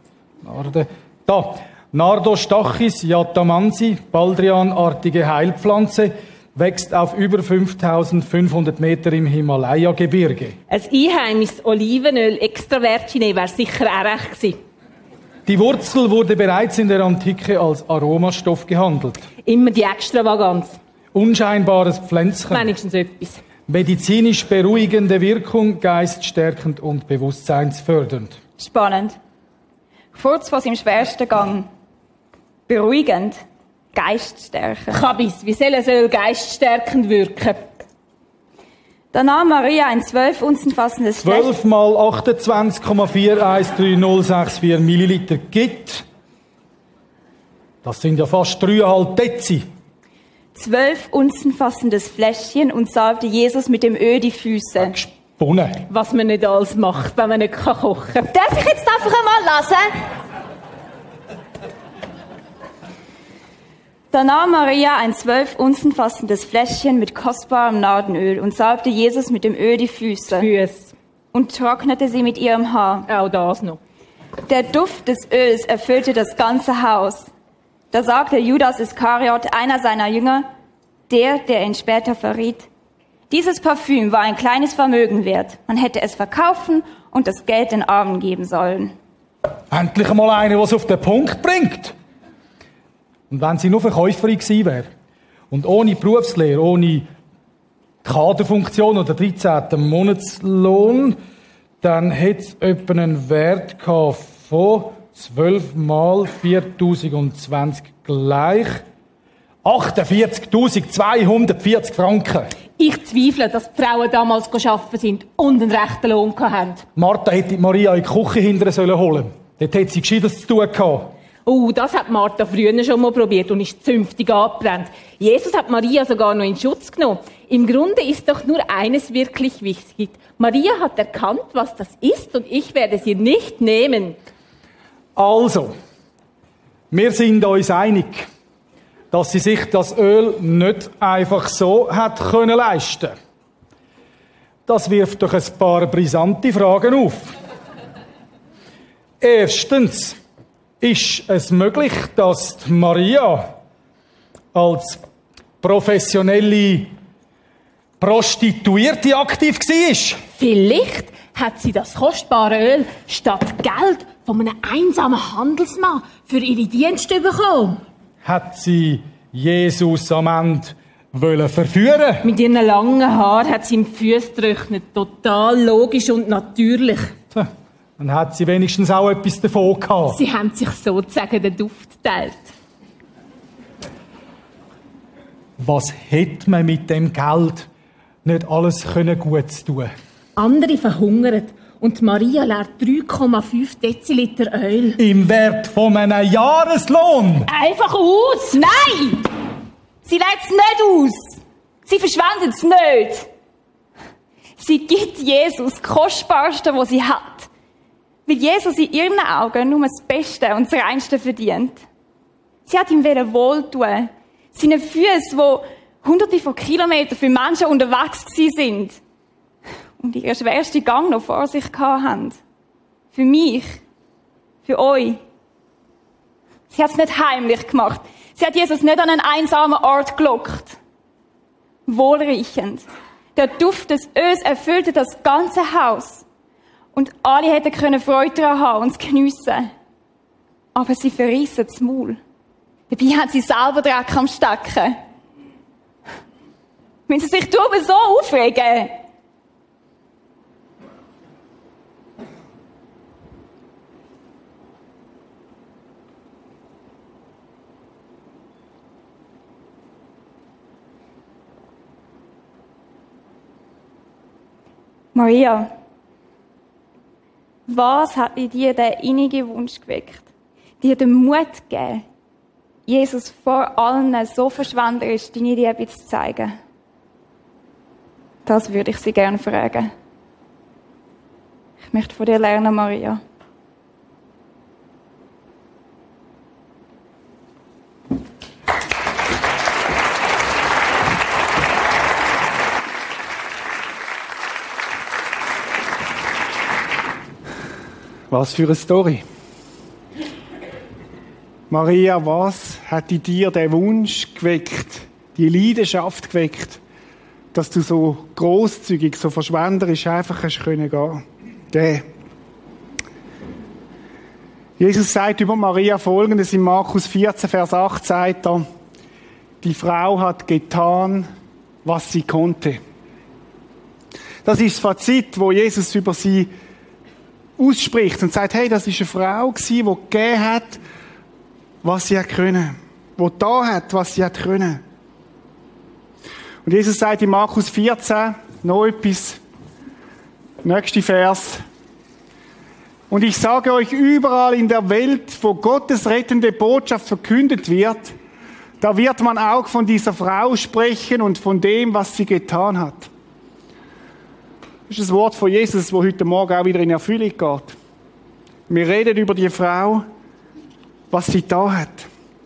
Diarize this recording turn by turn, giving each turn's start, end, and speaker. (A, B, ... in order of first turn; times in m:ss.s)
0:00.4-0:10.6 A
0:10.7-0:14.6 B
0:15.5-0:19.2 A
0:19.4-0:20.8 B
0:21.1-0:22.7 A
0:22.5-0:23.4 B
0:23.7-0:28.4 A
0:28.6-0:29.2 C
0:30.1-0:31.7 C
0:32.7-0:33.4 C
0:33.9-0:35.0 C
0:34.9-0:37.6 B
0:39.1-0:41.5 C
0:41.2-0:46.0 A
0:47.8-0:49.6 A
0:50.6-0:55.0 C
0:54.9-0:55.8 A
0:55.9-0:58.3 B
0:58.3-0:59.9 C
1:04.1-1:10.5 C
1:10.4-1:10.9 B
1:11.3-1:13.1 C
1:13.1-1:13.8 B
1:14.5-1:17.3 C
1:17.9-1:20.5 C
1:21.1-1:22.7 C
1:23.3-1:29.0 C
1:29.7-1:31.9 A
1:33.3-1:34.9 A
1:35.5-1:37.1 A
1:38.0-1:41.2 A
1:41.8-1:48.8 A
1:49.6-1:52.6 A
1:52.8-1:56.8 B
1:57.0-2:01.1 A
2:01.5-2:14.2 B
2:15.2-2:15.7 A
2:16.9-2:18.3 A
2:19.1-2:23.2 A
2:24.7-2:27.3 A
2:29.2-2:30.2 A
2:30.8-2:33.5 A
2:34.5-2:35.0 A
2:35.6-2:36.9 A
2:38.0-2:40.2 A
2:40.4-2:47.8 B
2:48.2-2:52.3 A
2:52.2-2:57.1 B
2:57.3-3:00.2 A
3:00.1-3:02.4 B
3:05.6-3:07.7 A
3:08.2-3:09.9 A
3:10.4-3:15.0 B
3:15.0-3:17.5 A
3:17.5-3:18.6 B
3:18.5-3:19.2 C
3:20.0-3:23.3 C
3:24.6-3:27.5 C
3:28.3-3:31.8 C
3:32.7-3:39.0 C
3:40.0-3:42.4 C
3:43.1-3:43.8 C
3:44.6-3:45.2 C
3:46.7-3:50.8 C
3:51.9-3:52.8 C
3:53.4-3:56.2 C
3:56.9-3:59.7 C
4:00.8-4:02.2 C
4:02.9-4:05.0 C
4:07.1-4:09.0 C
4:25.1-4:25.7 C
4:27.7-4:30.3 C
4:30.8-4:32.0 C
4:32.9-4:36.6 C
4:38.5-4:39.9 C
4:41.8-4:43.2 C
4:58.3-4:59.2 D
5:01.7-5:06.8 D
5:07.5-5:12.1 D
5:14.8-5:18.6 D
5:19.6-5:21.3 D
5:21.8-5:22.8 D
5:24.4-5:26.5 D
5:27.6-5:30.8 D
5:31.8-5:34.8 D
5:36.6-5:39.4 D
5:40.6-5:41.6 D
5:43.1-5:48.2 D
5:48.8-5:53.1 D
5:54.9-5:57.8 D
5:58.7-6:00.1 D
6:01.1-6:02.1 D